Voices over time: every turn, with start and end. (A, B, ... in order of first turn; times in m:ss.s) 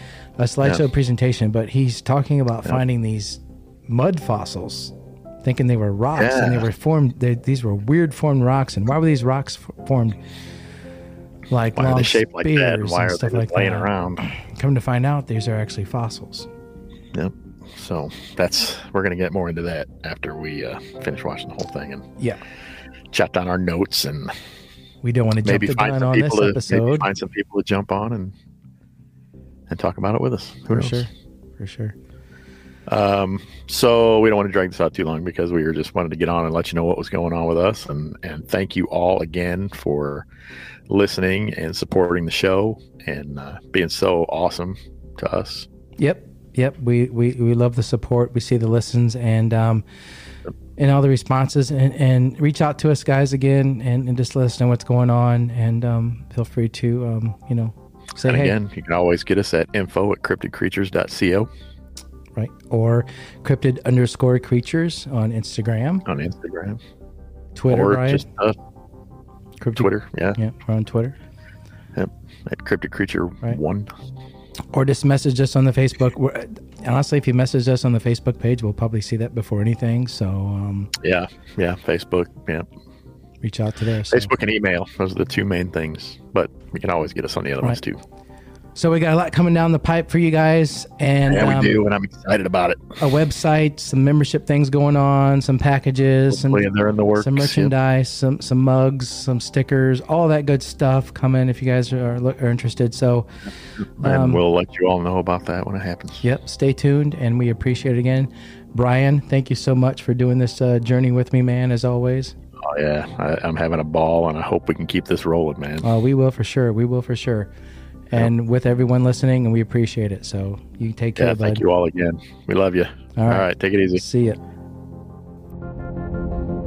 0:00.4-0:10.2 A
0:06.2-0:06.7 B
0:11.5-0:16.5 A
0:11.7-0:14.2 B
0:17.1-0:22.0 B
0:23.1-0:24.3 B
0:25.0-0:27.1 A
0:25.4-0:28.3 B
0:29.7-0:31.1 B
0:30.7-0:31.9 A
0:32.9-0:40.2 B
0:40.9-0:45.7 B
0:46.0-0:49.8 A
0:50.8-0:58.6 A
0:58.2-1:01.5 B
1:02.3-1:06.0 A
1:06.0-1:06.8 B
1:07.5-1:08.2 A
1:07.7-1:08.5 B
1:09.6-1:11.2 A
1:09.8-1:10.4 B
1:11.9-1:13.9 B
1:14.7-1:20.9 A
1:21.0-1:22.7 B
1:23.4-1:24.3 A
1:24.1-1:28.0 B
1:28.7-1:31.8 A
1:31.2-1:32.9 B
1:33.0-1:43.3 A
1:36.3-1:37.7 B
1:44.0-1:46.2 B
1:44.0-1:44.4 A
1:46.2-1:52.3 A
1:52.6-1:55.9 B
1:55.8-1:57.5 A
1:58.1-2:01.6 A
2:01.2-2:04.0 B
2:03.2-2:04.4 A